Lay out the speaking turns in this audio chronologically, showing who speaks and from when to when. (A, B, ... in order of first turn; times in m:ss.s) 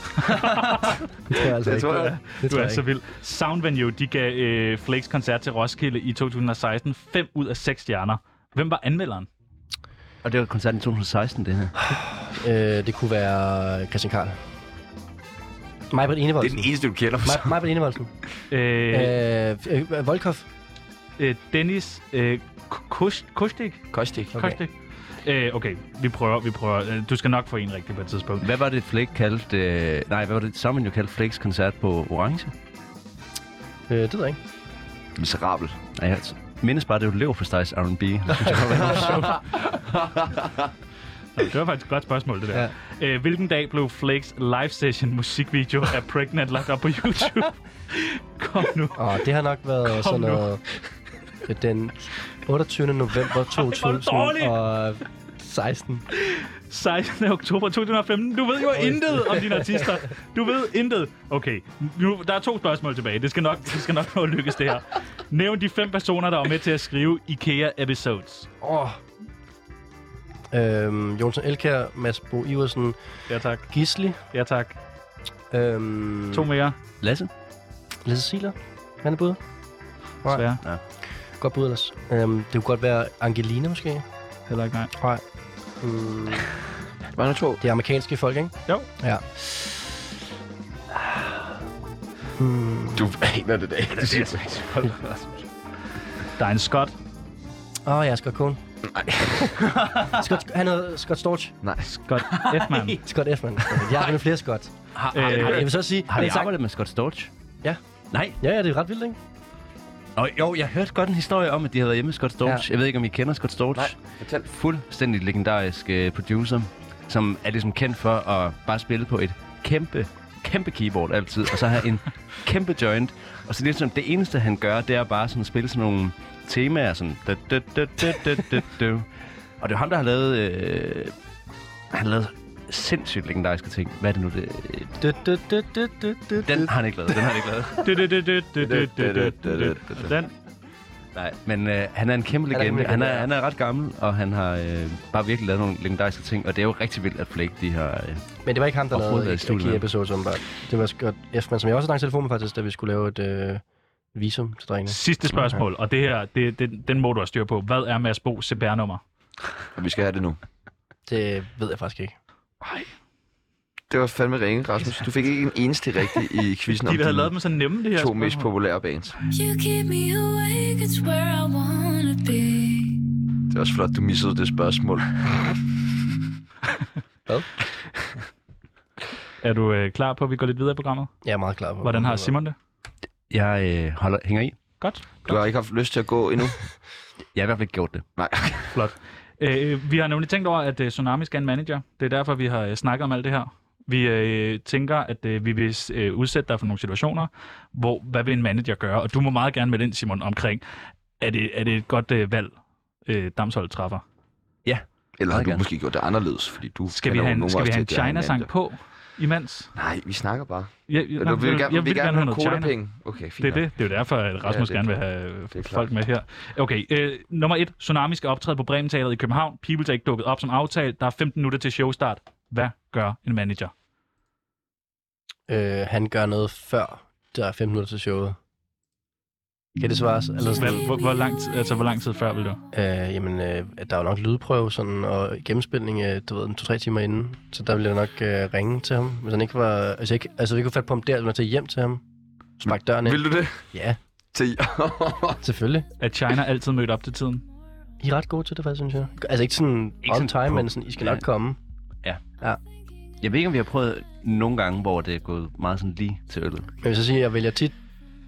0:00.2-0:01.0 A
0:01.3-0:02.8 B
0:01.6-0:02.2 C
0:02.2-0:09.3 A
0:10.2-0:11.9 D
0:12.2-0:14.4 B
0:15.9-0:16.7 B
0:16.4-0:17.6 C
0:17.2-0:18.1 B
0:18.5-0:19.2 A
0:18.9-0:20.5 B
0:21.2-0:24.7 A
0:23.9-0:24.4 C
0:24.4-0:24.6 B
0:25.2-0:28.5 A
0:28.4-0:32.5 D
0:33.9-0:34.4 B
0:35.2-0:35.8 C
0:36.0-0:39.4 D
0:38.8-0:40.7 C
0:41.4-0:49.2 A
0:49.0-0:50.6 B
0:49.9-0:50.5 A
0:51.4-0:56.1 B
0:53.5-0:54.6 A
0:56.2-1:08.5 A
0:58.8-0:59.8 B
1:08.6-1:09.0 B
1:10.5-1:13.0 B
1:13.3-1:14.8 A
1:13.7-1:14.2 B
1:15.5-1:16.5 B
1:16.3-1:16.8 A
1:17.0-1:17.3 D
1:18.0-1:19.4 B
1:20.3-1:20.6 A
1:21.4-1:24.0 B
1:24.5-1:24.9 A
1:25.0-1:25.2 B
1:25.8-1:26.5 B
1:27.1-1:27.6 C
1:27.6-1:29.4 B
1:32.4-1:33.0 B
1:33.0-1:34.4 C
1:33.9-1:35.5 D
1:36.4-1:36.9 A
1:37.9-1:38.6 B
1:38.9-1:39.4 C
1:39.3-1:41.6 B
1:41.6-1:41.9 C
1:41.8-1:43.0 A
1:42.5-1:42.9 D
1:43.0-1:44.7 B
1:44.9-1:47.3 D
1:45.1-1:45.8 A
1:45.2-1:46.5 B
1:48.1-1:48.4 D
1:48.4-1:49.2 B
1:50.2-2:09.1 D
1:53.8-1:54.5 C
2:09.6-2:11.1 D
2:11.9-2:15.0 D
2:15.0-2:16.7 B
2:16.4-2:18.0 D
2:17.8-2:20.3 A
2:18.6-2:20.1 C
2:21.1-2:28.2 D
2:22.5-2:23.3 B
2:28.4-2:33.6 B
2:28.9-2:29.9 D
2:34.1-2:35.0 B
2:34.9-2:39.0 A
2:39.8-2:40.4 C
2:41.1-2:42.2 B
2:43.9-2:47.3 C
2:46.8-2:48.5 A
2:48.0-2:49.2 C
2:49.3-2:53.0 E
2:53.5-2:55.4 C
2:59.4-3:01.2 A
3:01.2-3:02.4 B
3:01.8-3:02.6 A
3:03.3-3:04.6 D
3:04.8-3:05.4 A
3:05.2-3:06.7 C
3:07.4-3:08.0 D
3:08.2-3:08.7 C
3:08.7-3:20.6 A
3:21.2-3:22.5 A
3:23.1-3:24.0 A
3:24.6-3:25.7 D
3:25.2-3:28.5 C
3:26.9-3:29.7 A
3:29.8-3:33.7 C
3:30.9-3:32.8 A
3:33.4-3:43.7 A
3:34.4-3:34.8 C
3:35.5-3:35.9 C
3:45.5-3:48.4 B
3:49.8-3:50.8 B
3:50.6-3:52.6 A
3:52.7-4:02.0 B
4:02.6-4:04.0 B
4:02.6-4:03.6 C
4:04.3-4:05.4 C
4:05.4-4:05.9 B
4:06.0-4:07.4 A
4:08.0-4:11.6 B
4:10.0-4:11.2 D
4:13.2-4:16.7 D
4:16.8-4:17.7 B